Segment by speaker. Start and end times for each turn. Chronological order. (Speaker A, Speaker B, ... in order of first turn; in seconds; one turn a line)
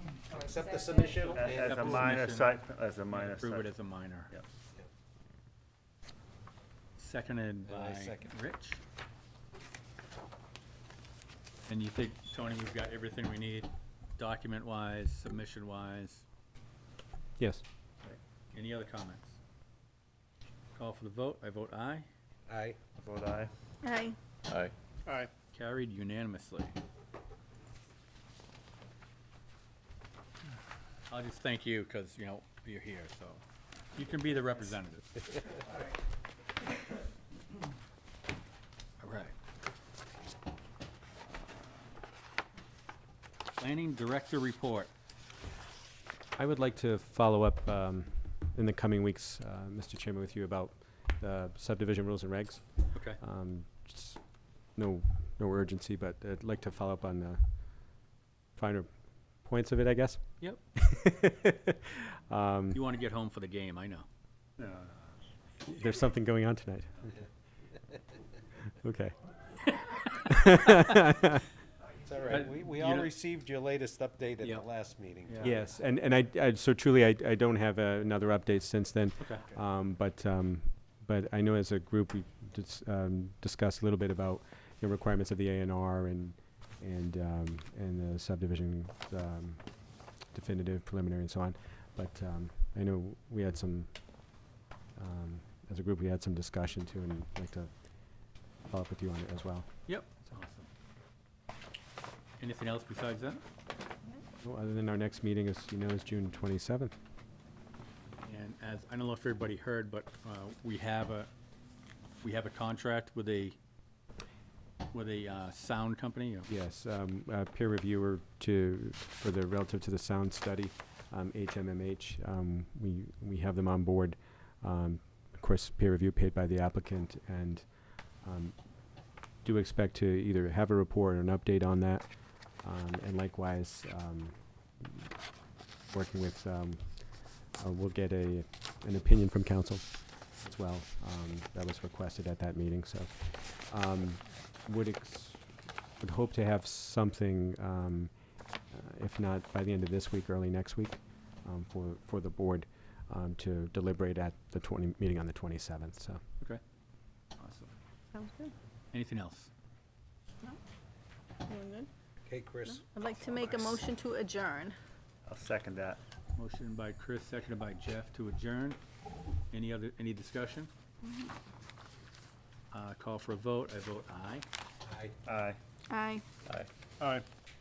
Speaker A: 0.3-2.1
Speaker B: 1.2-3.7
Speaker C: 1.4-2.6
Speaker C: 3.1-4.3
Speaker C: 7.0-8.8
Speaker A: 7.6-8.3
Speaker C: 11.7-16.2
Speaker D: 17.4-17.6
Speaker C: 18.5-19.4
Speaker C: 20.7-22.1
Speaker A: 22.5-22.8
Speaker B: 22.9-23.5
Speaker E: 23.8-24.2
Speaker C: 24.5-26.7
Speaker C: 31.1-33.4
Speaker C: 33.9-35.2
Speaker C: 39.0-39.3
Speaker C: 43.6-44.9
Speaker D: 46.4-62.8
Speaker C: 52.9-53.2
Speaker C: 62.7-64.1
Speaker B: 64.6-65.0
Speaker D: 65.6-67.2
Speaker D: 68.8-69.2
Speaker D: 70.2-71.4
Speaker A: 72.0-75.7
Speaker C: 72.3-73.1
Speaker C: 74.4-74.7
Speaker C: 75.2-75.6
Speaker D: 75.4-94.3
Speaker C: 79.2-79.6
Speaker D: 94.9-99.8
Speaker C: 99.9-100.7
Speaker C: 102.4-103.4
Speaker D: 104.4-106.9
Speaker C: 108.2-111.3
Speaker C: 112.2-113.6
Speaker C: 114.9-116.5
Speaker D: 116.5-135.1
Speaker D: 135.9-145.5
Speaker D: 146.0-156.2
Speaker C: 157.4-157.7
Speaker E: 158.1-158.5
Speaker C: 158.9-159.5
Speaker E: 161.5-161.9
Speaker A: 162.2-163.7
Speaker E: 162.7-164.8
Speaker B: 165.2-166.0
Speaker C: 166.3-168.8
Speaker C: 169.5-170.7
Speaker E: 171.0-171.3
Speaker C: 172.7-174.4
Speaker A: 174.8-175.2
Speaker B: 175.2-175.6
Speaker E: 175.9-176.2
Speaker B: 176.4-177.2